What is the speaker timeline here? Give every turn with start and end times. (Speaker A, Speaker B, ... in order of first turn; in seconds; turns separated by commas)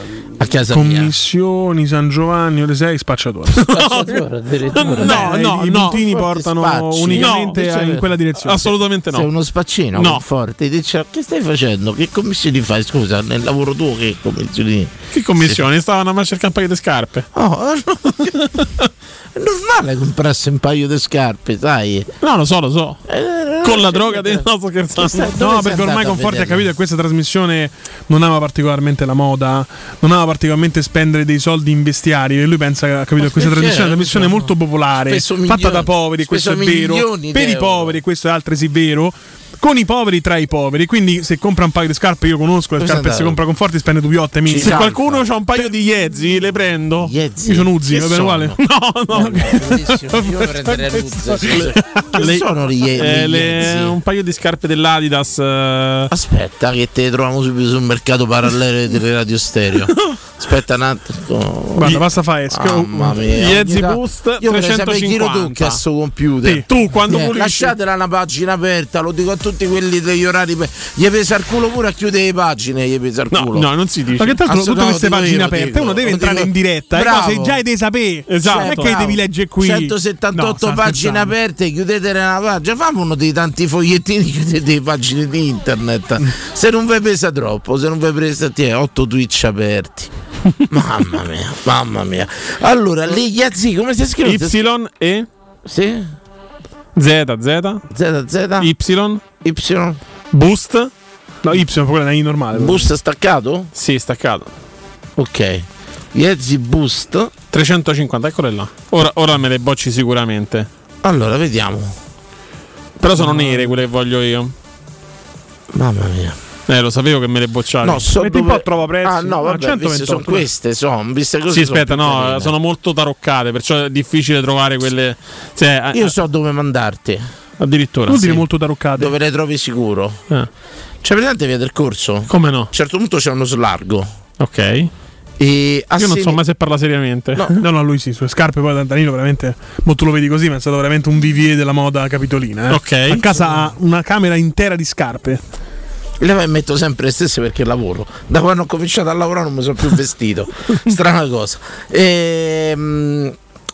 Speaker A: 0.4-1.1, Speaker B: 0.7-3.6, Speaker C: 3.6-4.2, Speaker A: 3.7-8.1, Speaker C: 4.8-6.0, Speaker B: 4.9-8.7, Speaker C: 7.1-7.6, Speaker C: 8.4-9.3, Speaker A: 9.1-15.6, Speaker C: 9.9-10.2, Speaker C: 15.1-17.3, Speaker A: 17.3-18.3, Speaker A: 19.4-22.1, Speaker C: 22.2-23.0, Speaker A: 23.1-26.7, Speaker C: 23.6-25.3, Speaker B: 25.4-44.8, Speaker A: 33.2-34.5, Speaker A: 35.1-38.0, Speaker A: 42.8-43.4, Speaker A: 44.5-45.2, Speaker C: 44.6-47.1, Speaker A: 47.0-54.0, Speaker B: 47.5-48.6, Speaker C: 48.6-49.6, Speaker B: 49.1-51.7, Speaker C: 53.0-56.1, Speaker A: 56.1-62.0, Speaker B: 61.8-63.2, Speaker A: 62.5-73.7, Speaker C: 63.3-65.8, Speaker C: 66.7-67.7, Speaker C: 73.3-74.4, Speaker B: 74.2-81.3, Speaker A: 74.4-77.6, Speaker C: 78.3-79.0, Speaker A: 78.4-90.1, Speaker A: 90.7-94.6, Speaker C: 94.2-95.3, Speaker A: 95.7-96.1, Speaker C: 97.0-97.8, Speaker A: 97.9-98.7, Speaker C: 98.6-99.2, Speaker A: 99.4-100.0, Speaker C: 100.3-100.9, Speaker B: 101.4-102.9, Speaker A: 102.5-103.7, Speaker C: 103.8-104.5, Speaker A: 105.2-107.3, Speaker C: 107.5-110.7, Speaker A: 111.0-111.9, Speaker C: 113.0-114.5, Speaker B: 113.2-113.8, Speaker A: 115.7-116.4, Speaker C: 116.7-118.1, Speaker A: 117.8-122.5, Speaker B: 118.2-120.5, Speaker C: 121.5-126.2, Speaker A: 125.9-127.2, Speaker C: 127.6-128.4, Speaker B: 128.1-129.1, Speaker A: 129.0-130.2, Speaker A: 131.0-134.1, Speaker C: 132.3-132.7, Speaker C: 134.4-134.9, Speaker A: 135.4-136.4, Speaker C: 136.0-137.6, Speaker B: 137.6-145.4, Speaker C: 142.7-143.3, Speaker A: 146.2-153.3